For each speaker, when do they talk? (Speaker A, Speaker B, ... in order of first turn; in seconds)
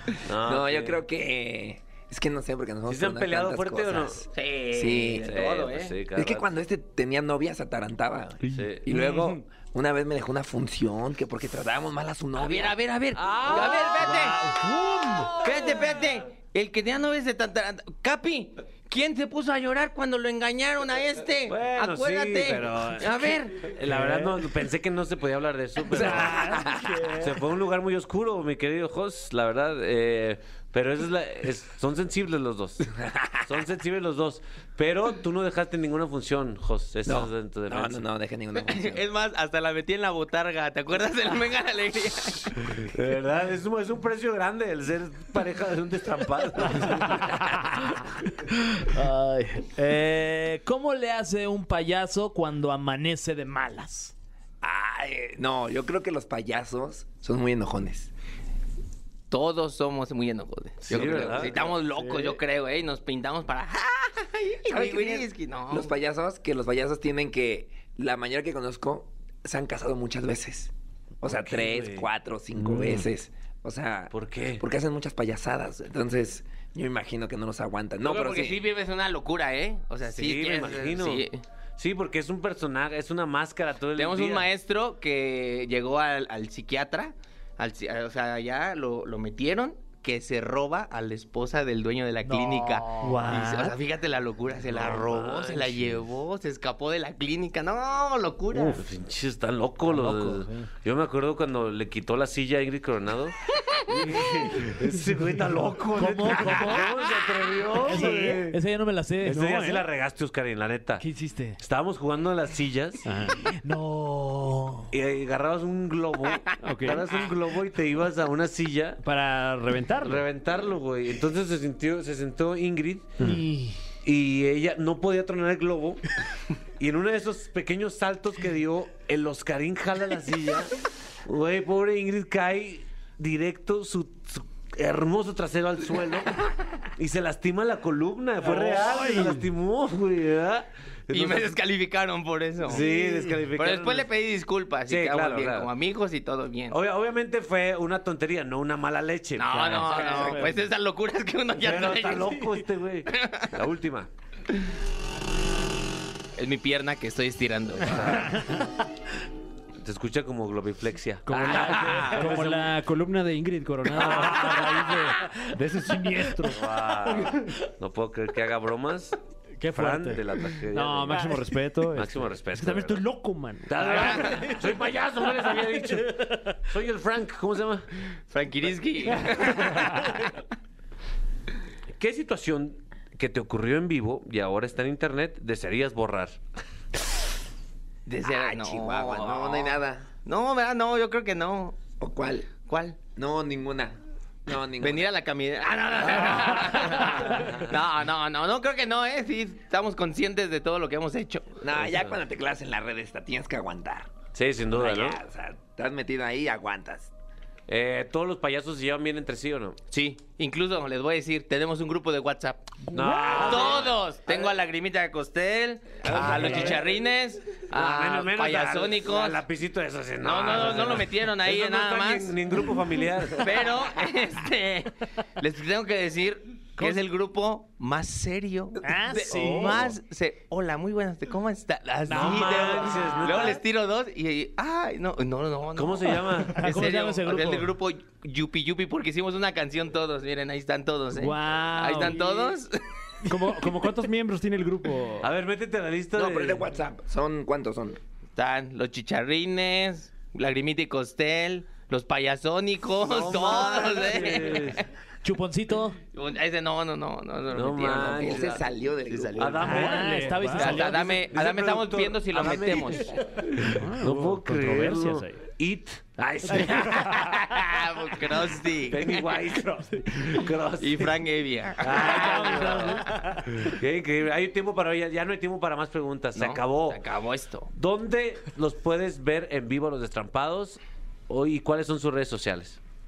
Speaker A: 0.2-1.0, 2.9-4.2, 5.2-6.5, 8.5-8.8, 13.2-14.3, 21.5-26.6, 27.2-38.0, 42.8-47.9, 60.9-61.5, 71.2-72.1, 74.1-74.6, 80.1-81.3, 81.8-84.5, 94.7-96.0, 98.5-103.3, 103.9-108.6, 109.2-111.0, 111.6-113.1, 114.9-119.0, 120.0-123.3, 124.0-126.0, 126.8-130.7, 131.2-141.5, 142.6-144.1, 144.9-145.7, 146.7-150.4, 151.6-154.1, 157.8-158.5, 159.8-162.7, 163.9-164.8, 166.4-169.2, 169.7-171.4, 171.9-173.0, 173.7-177.9, 181.9-186.4, 196.1-196.6, 197.4-197.7, 201.7-202.1, 204.3-205.2, 207.7-209.8, 212.9-213.9, 216.0-216.9, 217.7-223.7, 232.1-233.6, 235.7-236.9, 245.2-246.7, 253.0-254.8, 257.5-258.6, 259.4-267.6, 268.9-271.1, 271.8-277.0, 277.7-282.8
Speaker B: 0.3-5.4, 6.1-12.8, 13.5-13.9, 26.0-27.0, 33.0-33.4, 37.0-39.0, 54.6-58.1, 60.9-61.8, 64.7-78.6, 188.2-190.1, 192.0-192.5, 193.2-195.1, 201.6-204.1, 204.7-207.1, 246.1-248.0, 257.8-259.8
Speaker C: 4.3-6.0, 12.3-14.4, 15.4-23.7, 38.6-42.7, 59.3-65.9, 78.0-81.4, 83.9-98.8, 141.1-142.9, 143.5-146.8, 149.3-153.5, 156.3-158.3, 178.3-180.2, 188.1-191.8, 192.7-193.0, 194.8-201.5, 209.9-212.7, 213.3-219.4, 220.2-222.6, 223.4-242.8, 248.3-254.8, 256.1-258.6, 259.1-259.6, 260.6-263.2, 267.4-269.4, 270.8-273.0, 276.3-277.7
Speaker D: 8.4-9.3, 14.2-15.3, 26.0-27.2, 93.0-93.7, 107.9-108.4, 109.3-109.8, 113.0-113.5, 116.6-117.1, 119.0-120.2, 138.4-139.4, 161.2-167.5, 170.7-174.6, 212.9-213.5, 241.1-242.5, 243.2-245.3, 259.6-260.8, 263.6-265.4, 266.6-267.1
Speaker E: 14.3-15.3, 48.7-54.1, 92.2-93.7, 99.9-100.7, 106.0-106.8, 107.8-109.5, 111.0-111.5, 113.4-114.9, 123.2-123.7, 149.9-150.5, 169.6-170.2, 228.8-229.8, 236.6-237.7, 255.2-256.0, 259.6-261.1